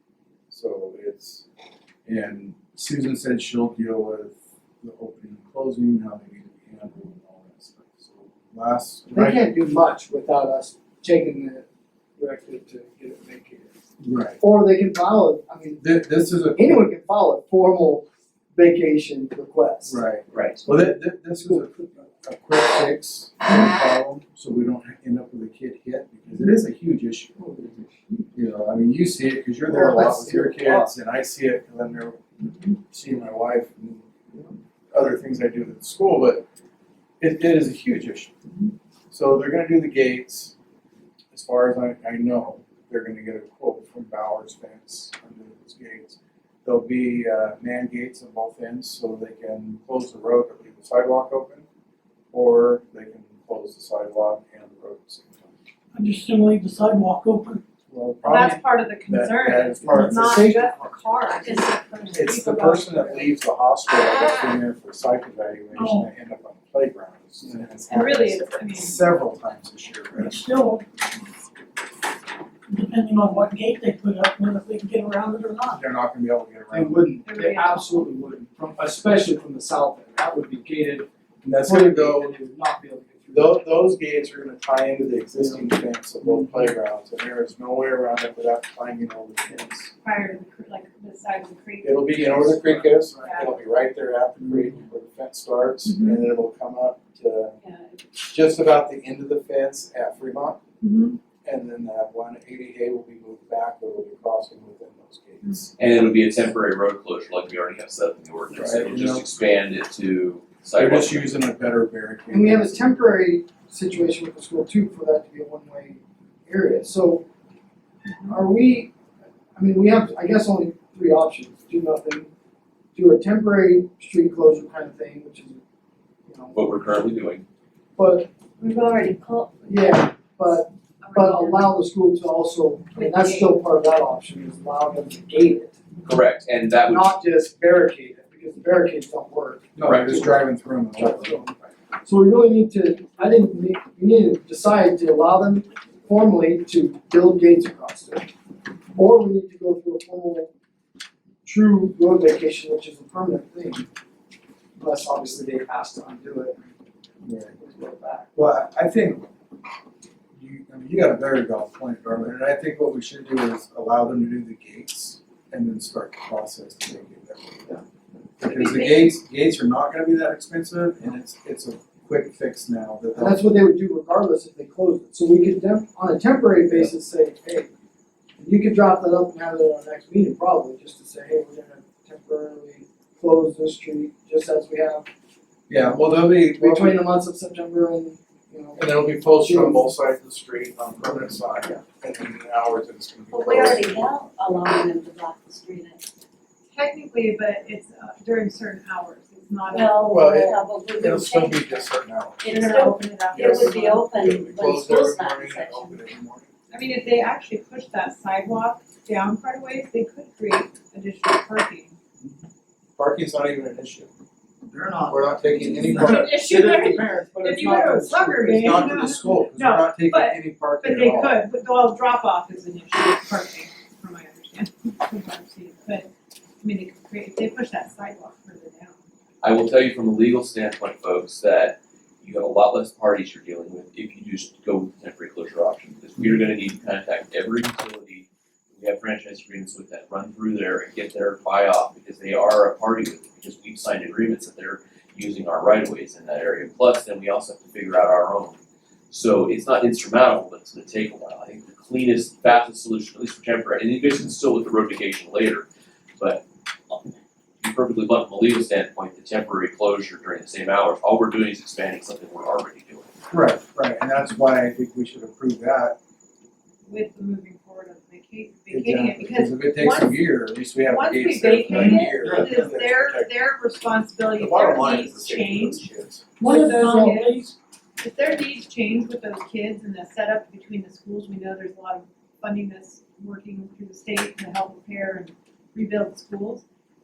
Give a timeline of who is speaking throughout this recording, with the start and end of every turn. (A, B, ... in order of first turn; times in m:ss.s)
0:00.5-0:01.4 A
0:02.0-0:09.4 A
0:09.1-0:11.6 B
0:12.2-0:13.7 B
0:14.0-0:14.4 A
0:14.4-0:15.8 B
0:15.8-0:16.8 A
0:16.5-0:20.0 B
0:19.8-0:27.4 A
0:20.3-0:20.6 C
0:20.6-0:22.0 B
0:27.4-0:28.3 B
0:28.3-0:32.2 A
0:29.6-0:30.9 B
0:32.4-0:32.7 B
0:32.9-0:34.0 A
0:34.9-0:36.4 A
0:37.2-0:38.3 A
0:39.1-0:40.5 A
0:41.3-0:51.6 A
0:52.3-0:55.5 A
0:55.9-0:57.6 D
0:57.9-1:00.6 A
0:58.2-1:03.4 E
0:59.9-1:01.0 B
1:01.4-1:02.3 F
1:02.1-1:10.4 A
1:05.7-1:06.1 D
1:07.4-1:07.7 B
1:07.9-1:09.0 E
1:10.1-1:10.8 D
1:12.7-1:15.8 D
1:15.7-1:17.1 A
1:16.7-1:21.1 B
1:17.2-1:18.1 E
1:21.4-1:22.4 A
1:21.6-1:23.8 B
1:23.3-1:29.9 A
1:25.4-1:26.7 B
1:30.0-1:33.5 E
1:31.8-1:37.6 A
1:32.6-1:33.3 B
1:34.4-1:34.8 B
1:35.8-1:36.3 E
1:37.6-1:38.0 E
1:38.2-1:40.6 A
1:40.8-1:41.2 E
1:41.4-1:46.5 A
1:45.8-1:51.4 C
1:48.5-1:49.2 A
1:50.7-1:52.8 A
1:52.3-1:57.2 B
1:58.3-1:58.9 B
1:59.5-2:02.3 B
2:02.9-2:05.6 B
2:06.2-2:06.8 B
2:06.5-2:07.4 C
2:08.0-2:08.3 B
2:08.6-2:11.7 F
2:09.6-2:15.8 B
2:12.9-2:13.6 E
2:16.0-2:17.2 C
2:16.8-2:28.3 B
2:19.8-2:21.4 A
2:19.8-2:20.1 C
2:28.9-2:30.5 B
2:31.4-2:33.9 B
2:34.8-2:36.7 B
2:37.2-2:37.5 A
2:37.6-2:38.3 B
2:38.3-2:39.3 A
2:40.3-2:47.7 A
2:48.4-2:53.5 A
2:48.4-2:49.2 E
2:53.1-2:57.7 B
2:58.4-3:05.1 B
3:05.7-3:07.0 A
3:06.6-3:09.9 B
3:08.8-3:14.0 A
3:13.3-3:16.1 F
3:16.7-3:20.3 E
3:19.7-3:21.8 F
3:20.0-3:22.7 A
3:22.4-3:26.0 F
3:22.5-3:24.0 E
3:23.3-3:26.5 A
3:26.7-3:31.9 E
3:33.0-3:34.1 A
3:34.7-3:38.7 B
3:35.1-3:36.4 A
3:35.6-3:46.1 E
3:38.5-3:41.4 A
3:46.6-3:49.0 E
3:49.4-4:08.6 C
4:09.1-4:15.6 C
4:16.2-4:23.1 C
4:23.3-4:26.0 A
4:26.8-4:35.9 E
4:28.7-4:33.3 A
4:31.7-4:32.5 B
4:34.3-4:36.2 A
4:36.4-4:37.5 D
4:36.4-4:37.4 E
4:38.0-4:46.6 E